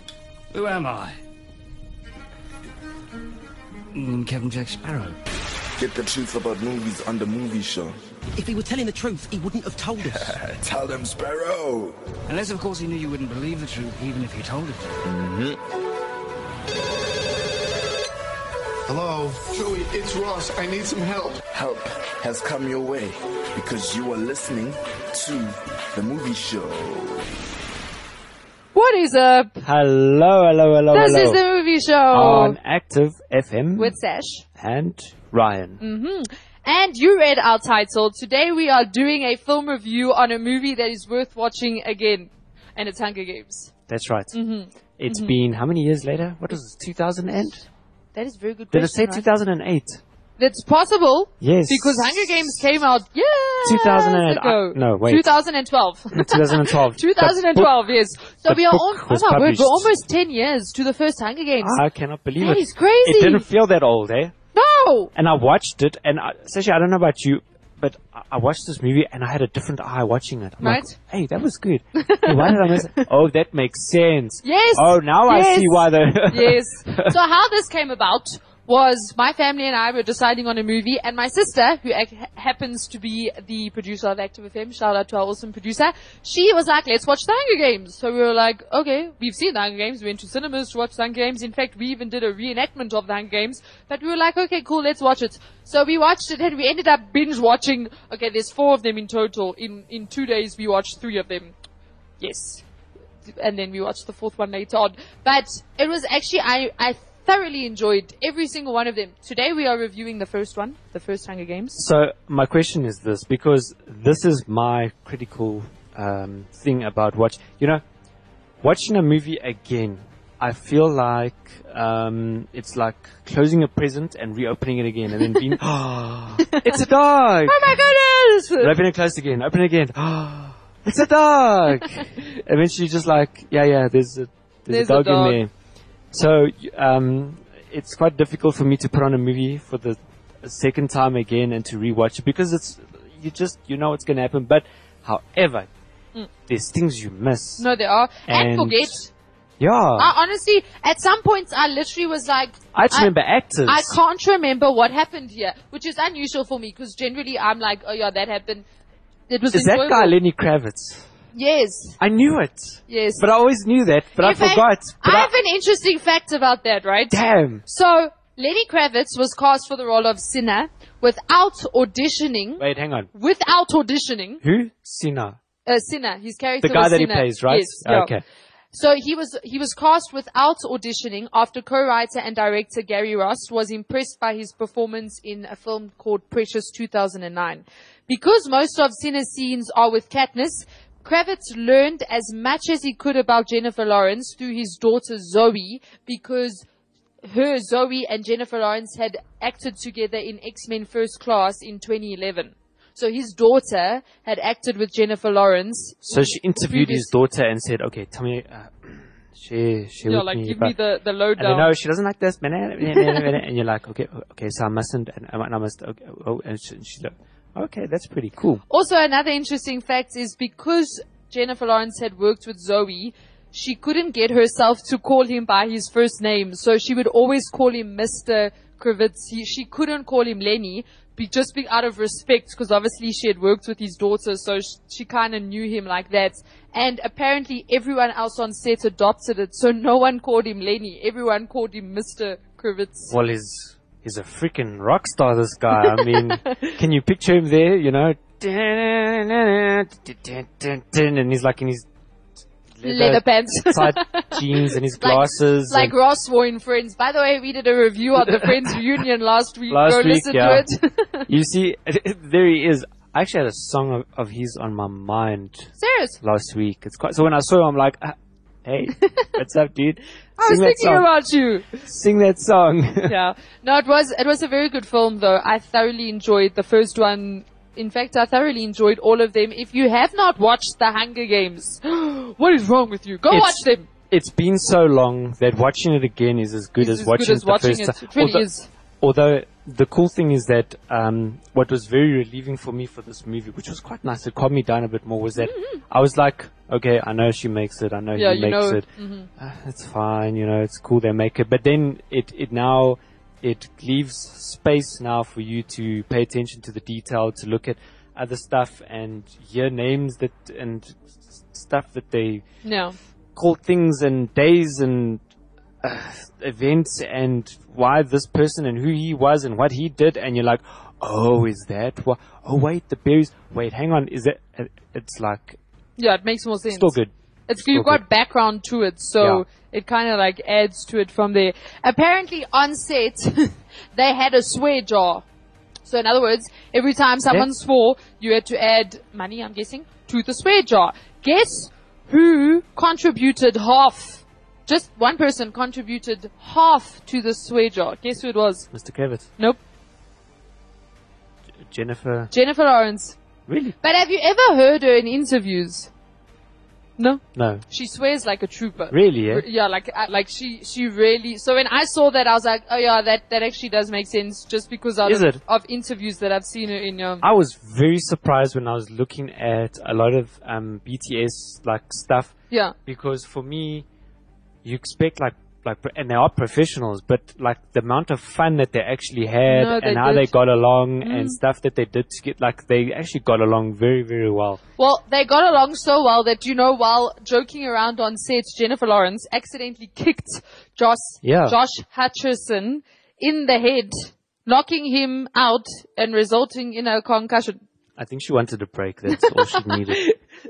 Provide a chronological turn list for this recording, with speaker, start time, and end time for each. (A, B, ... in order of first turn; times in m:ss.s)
0:00.5-0:01.2 A
0:03.9-0:05.2 A
0:05.8-0:08.0 B
0:08.4-0:10.3 C
0:10.0-0:12.0 B
0:12.3-0:15.0 A
0:15.0-0:15.6 B
0:18.9-0:21.4 D
0:21.5-0:27.3 B
0:28.8-0:29.6 E
0:29.6-0:31.4 F
0:30.9-0:32.6 E
0:32.1-0:34.0 F
0:33.8-0:34.4 E
0:34.6-0:35.8 F
0:35.8-0:43.7 E
0:43.9-0:44.4 F
0:44.3-0:45.3 E
0:45.0-0:47.7 F
0:48.2-0:49.2 E
0:48.7-0:50.0 F
0:50.4-1:01.8 E
0:51.4-0:52.6 F
0:53.6-0:55.3 F
0:56.1-0:57.7 F
0:58.4-0:59.9 F
1:01.6-1:04.3 F
1:02.4-1:03.5 E
1:04.5-1:05.1 E
1:05.2-1:17.1 F
1:10.6-1:11.0 E
1:12.0-1:13.1 E
1:14.4-1:41.6 E
1:42.2-1:42.6 E
1:43.3-1:51.8 E
1:51.8-1:57.8 F
1:58.6-2:07.9 F
2:06.4-2:06.7 E
2:07.5-2:08.7 E
2:08.6-2:15.5 F
2:14.7-2:15.4 E
2:16.1-2:25.7 F
2:26.5-2:27.7 F
2:27.6-2:29.1 E
2:28.3-2:28.9 F
2:29.6-2:30.1 F
2:30.0-2:33.1 E
2:32.7-2:34.0 F
2:33.7-2:38.6 E
2:39.3-2:40.2 E
2:39.5-2:41.1 F
2:41.3-2:42.0 E
2:42.0-2:45.3 F
2:42.9-2:43.3 E
2:44.2-2:54.4 E
2:47.1-2:47.6 F
2:52.6-2:53.1 F
2:54.4-2:55.4 F
2:55.7-2:58.1 E
2:56.6-2:58.2 F
2:58.7-3:16.7 E
3:17.2-3:27.1 E
3:26.1-3:30.8 F
3:30.0-3:31.7 E
3:31.4-3:38.6 F
3:32.9-3:33.4 E
3:38.7-4:03.1 E
4:03.1-4:11.9 F
4:06.0-4:06.8 E
4:12.8-4:15.9 F
4:12.8-4:21.3 E
4:18.2-4:18.8 F
4:19.7-4:20.7 F
4:21.3-4:31.1 F
4:25.8-4:26.2 E
4:29.0-4:29.3 E
4:30.4-4:31.9 E
4:31.8-4:33.2 F
4:33.0-4:43.9 E
4:43.3-4:48.5 F
4:46.8-4:48.7 E
4:49.0-4:58.9 F
4:55.4-4:55.8 E
4:58.2-4:59.3 E
4:59.4-5:12.4 F
5:12.6-5:13.0 E
5:13.4-5:15.2 F
5:15.8-5:25.6 F
5:26.0-5:27.0 E
5:26.7-5:28.0 F
5:27.5-5:35.2 E
5:29.2-5:29.4 F
5:35.8-5:48.7 E
5:48.7-5:49.3 F
5:51.6-5:52.3 F
5:52.3-5:53.2 E
5:53.5-5:53.8 F
5:53.8-5:55.9 E
5:57.0-6:07.2 E
5:57.4-5:57.6 F
5:58.9-5:59.4 F
6:05.0-6:05.4 F
6:07.2-6:12.4 F
6:12.9-6:13.9 F
6:14.6-6:24.6 F
6:19.5-6:20.3 E
6:21.0-6:21.4 E
6:24.8-6:37.6 E
6:31.2-6:31.6 F
6:38.0-6:40.1 F
6:39.1-6:40.2 E